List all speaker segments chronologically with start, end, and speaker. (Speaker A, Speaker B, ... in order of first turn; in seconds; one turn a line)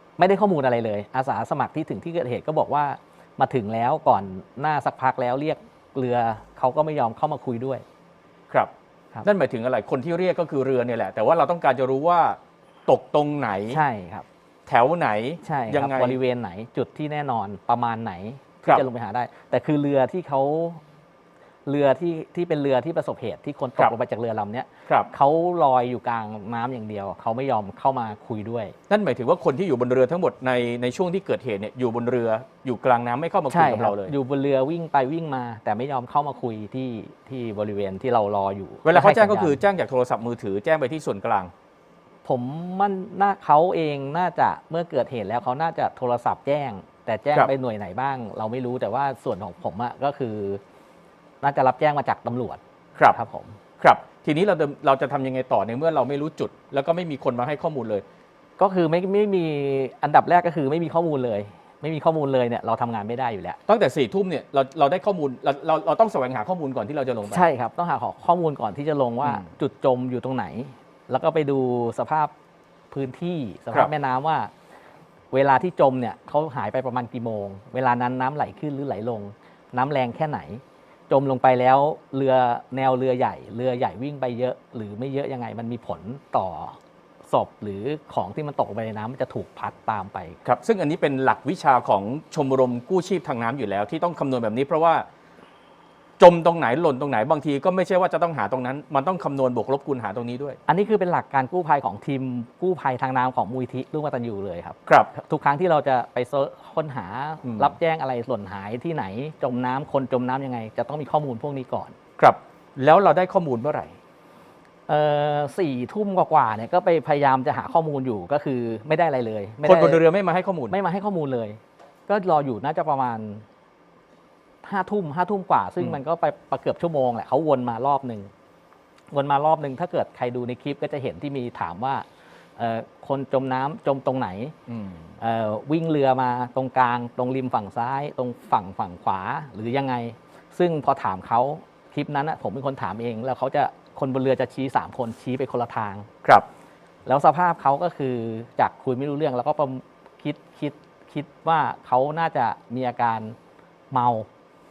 Speaker A: 0.2-7.8
Speaker B: 9.2-13.8
Speaker A: 13.7-14.2
Speaker B: 14.7-16.2
Speaker A: 15.4-20.8
Speaker A: 21.6-28.7
Speaker B: 28.9-34.1
Speaker A: 33.5-39.6
Speaker B: 38.8-41.5
Speaker A: 42.2-50.6
Speaker A: 51.4-53.6
Speaker B: 53.8-58.0
Speaker A: 58.6-63.6
Speaker B: 63.7-67.5
Speaker A: 67.2-72.3
Speaker B: 69.2-69.5
Speaker A: 72.9-74.5
Speaker A: 75.3-90.4
Speaker B: 90.4-95.0
Speaker B: 96.2-100.6
Speaker A: 100.7-111.9
Speaker B: 107.4-107.7
Speaker B: 112.2-114.0
Speaker A: 114.9-120.0
Speaker B: 119.6-120.7
Speaker A: 120.7-123.4
Speaker A: 124.6-128.3
Speaker A: 129.1-132.1
Speaker A: 132.6-134.5
Speaker B: 134.7-135.1
Speaker A: 135.2-146.1
Speaker A: 147.0-153.3
Speaker A: 153.9-154.3